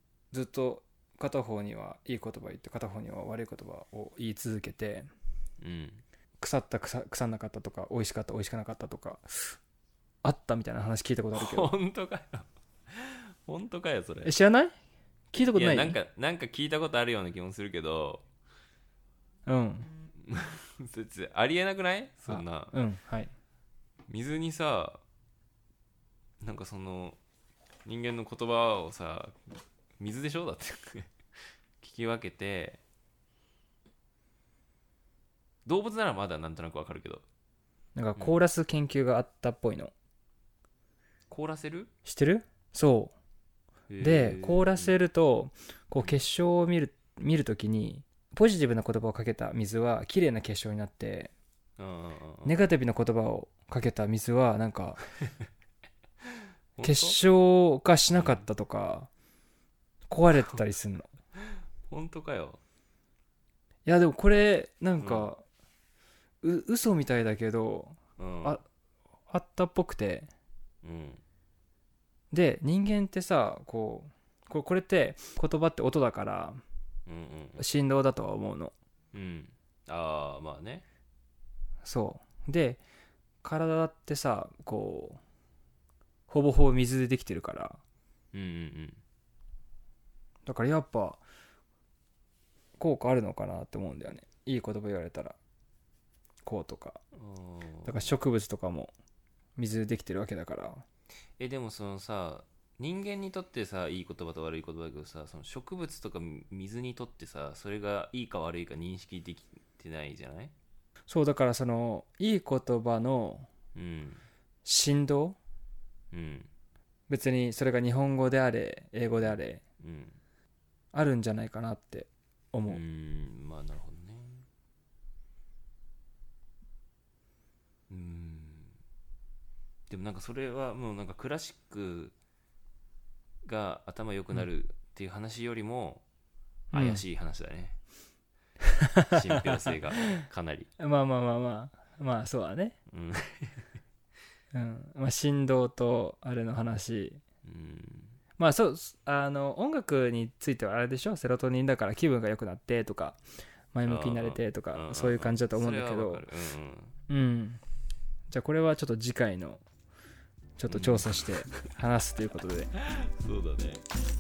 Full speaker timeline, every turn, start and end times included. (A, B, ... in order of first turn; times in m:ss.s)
0:00.3-0:05.1 A
0:05.6-0:06.0 B
0:06.4-0:09.6 A
0:10.2-0:11.7 A
0:11.3-0:14.3 B
0:14.2-0:14.7 A
0:15.3-0:16.0 A
0:15.5-0:18.2 B
0:19.4-0:19.9 A
0:20.2-0:22.7 B
0:22.2-0:23.3 A
0:24.1-0:25.0 B
0:26.4-0:27.2 B
0:27.8-0:31.2 B
0:31.8-0:32.8 B
0:35.6-0:37.2 B
0:38.0-0:39.9 A
0:41.3-0:41.9 B
0:42.0-0:43.1 A
0:43.9-0:44.9 B
0:44.0-0:51.3 A
0:51.8-0:52.6 B
0:52.4-0:55.0 A
0:56.8-0:57.2 B
0:56.8-0:59.1 A
0:58.1-0:58.4 B
1:00.1-1:01.1 A
1:01.9-1:02.6 B
1:03.8-1:05.4 A
1:05.0-1:05.3 B
1:06.4-1:08.6 A
1:08.2-1:08.6 B
1:09.3-1:10.3 A
1:10.8-1:11.2 B
1:12.3-1:16.6 A
1:17.1-1:17.6 B
1:17.6-1:18.7 A
1:19.1-1:20.8 B
1:21.8-1:22.8 A
1:23.4-1:25.2 A
1:26.3-1:27.8 A
1:28.3-1:29.0 B
1:30.4-1:31.2 A
1:32.8-1:35.4 A
1:36.4-1:37.0 A
1:37.2-1:38.1 B
1:37.8-1:38.9 A
1:39.6-1:40.8 A
1:41.4-1:50.5 B
1:51.1-1:53.5 A
1:53.7-1:54.2 B
1:54.6-1:55.4 A
1:56.1-1:56.5 B
1:57.1-1:59.6 A
1:59.8-2:00.2 B
2:00.9-2:02.8 A
2:02.7-2:04.4 B
2:07.9-2:08.8 B
2:09.9-2:12.1 B
2:13.4-2:16.0 B
2:16.7-2:17.0 A
2:16.7-2:17.8 B
2:18.9-2:19.5 A
2:19.1-2:20.7 B
2:20.8-2:22.8 A
2:22.9-2:23.6 B
2:24.5-2:27.2 A
2:27.4-2:28.2 B
2:28.4-2:33.2 A
2:33.7-2:36.3 A
2:33.8-2:37.0 B
2:37.1-2:37.6 A
2:38.3-2:39.6 A
2:40.6-2:42.7 A
2:40.7-2:41.5 B
2:42.8-2:43.8 B